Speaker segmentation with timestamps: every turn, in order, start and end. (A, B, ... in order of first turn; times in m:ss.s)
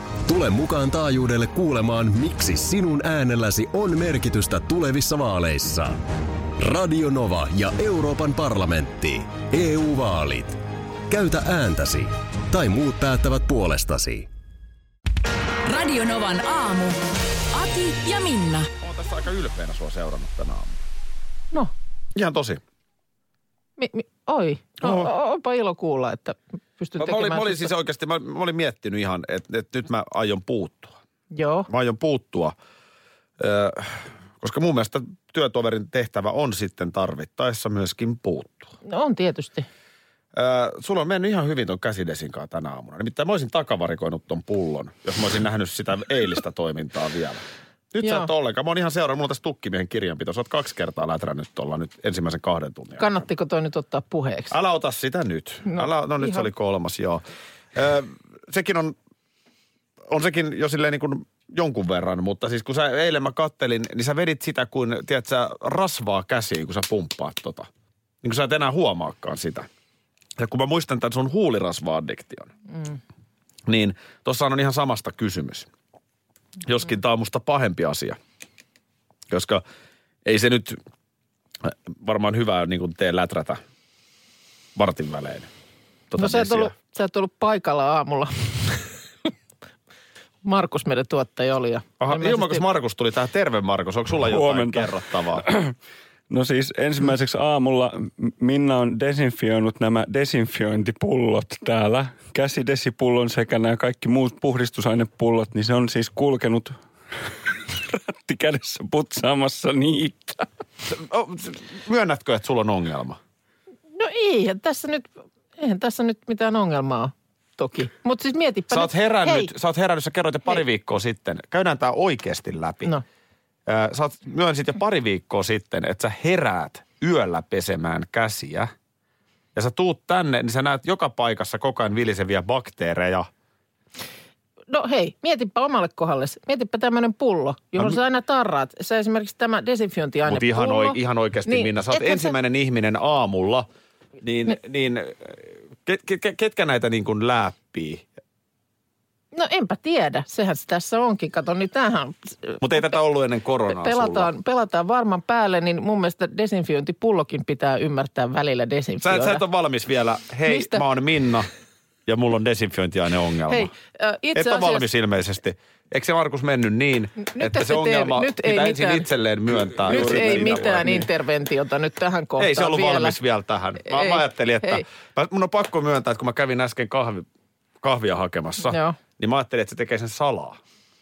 0:00.2-0:06.0 A
0:06.6-0:10.6 A
0:11.1-0:14.3 A
0:15.6-0:17.0 B
0:17.5-0:18.7 B
0:18.8-0:20.8 C
0:22.1-0:22.6 C
0:23.8-0:27.7 D
0:24.8-0:25.1 C
0:27.0-0:31.0 C
0:31.3-0:31.7 D
0:31.7-0:32.5 C
0:33.4-0:38.7 C
0:38.8-0:39.7 D
0:40.3-0:53.2 C
0:48.0-0:48.3 D
0:53.0-0:54.5 D
0:54.5-0:57.2 C
0:55.6-0:56.4 D
0:57.7-0:59.0 C
1:00.1-1:07.7 C
1:08.2-1:09.7 C
1:10.4-1:12.5 C
1:13.7-1:15.7 C
1:16.6-1:18.2 C
1:19.3-1:19.6 C
1:20.2-1:20.8 C
1:21.6-1:23.6 C
1:24.7-1:25.5 C
1:26.1-1:26.7 C
1:26.2-1:28.8 D
1:30.4-1:32.6 D
1:32.0-1:35.4 C
1:34.3-1:35.7 E
1:36.3-1:50.5 E
1:50.9-1:53.2 C
1:53.9-1:59.5 D
1:58.7-2:02.9 C
2:03.7-2:08.7 C
2:09.5-2:13.3 C
2:14.7-2:22.3 D
2:20.2-2:23.7 C
2:24.2-2:28.0 C
2:29.3-2:32.6 D
2:32.6-2:34.3 C
2:33.7-2:39.4 D
2:39.0-2:41.5 C
2:40.5-2:40.8 D
2:42.0-2:43.7 C
2:43.5-2:44.8 D
2:44.3-2:51.1 C
2:47.2-2:49.1 D
2:49.8-2:53.2 D
2:49.9-2:50.9 E
2:52.4-2:57.3 C
2:53.8-2:54.8 D
2:57.8-3:00.6 C
2:58.6-2:59.0 D